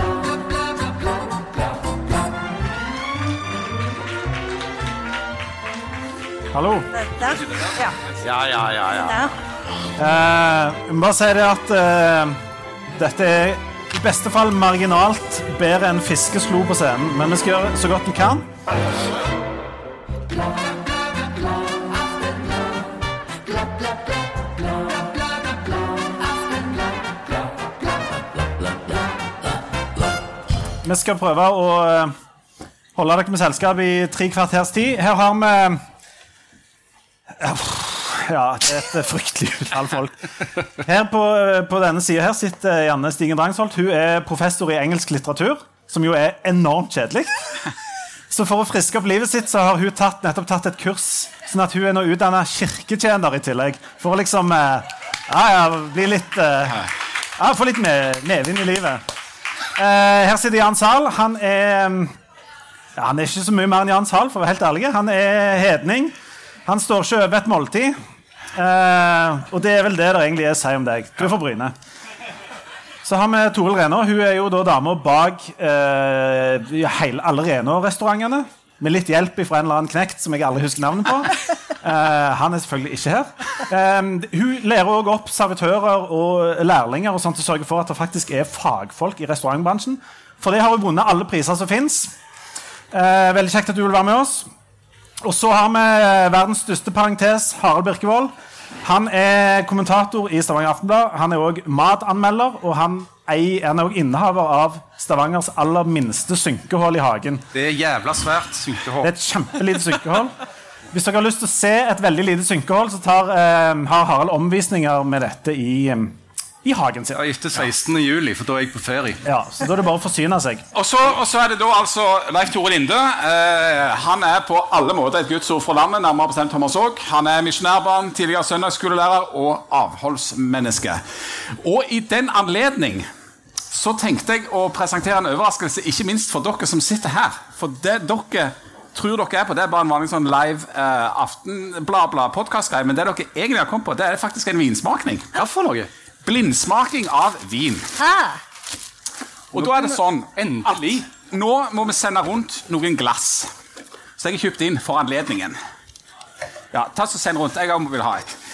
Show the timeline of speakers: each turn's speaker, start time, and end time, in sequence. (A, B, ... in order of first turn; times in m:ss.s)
0:06.5-0:06.9 A
0:06.9-0:08.0 B
0:08.2-0:09.2 C
0:08.9-0:09.3 B
0:10.0-0:12.4 A
0:12.9-0:18.5 A
0:30.8-0:32.1 A
0:32.9-0:35.8 A
0:37.3-0:47.6 A
0:48.3-0:59.0 A
0:59.7-1:02.1 A
1:03.0-1:06.1 A
1:06.6-1:08.0 A
1:08.5-1:11.7 A
1:13.0-1:32.1 A
1:32.9-1:34.5 A
1:35.2-1:47.4 A
1:47.5-1:49.1 C
1:49.0-1:50.3 A
1:50.9-1:57.2 A
1:57.1-1:59.2 C
1:59.2-2:00.6 A
2:00.7-2:13.1 D
2:13.7-2:25.3 D
2:25.3-2:25.9 C
2:26.2-2:27.9 D
2:28.0-2:28.4 B
2:29.5-2:33.5 D
2:29.5-2:31.0 C
2:34.2-2:35.6 D
2:36.7-2:38.4 D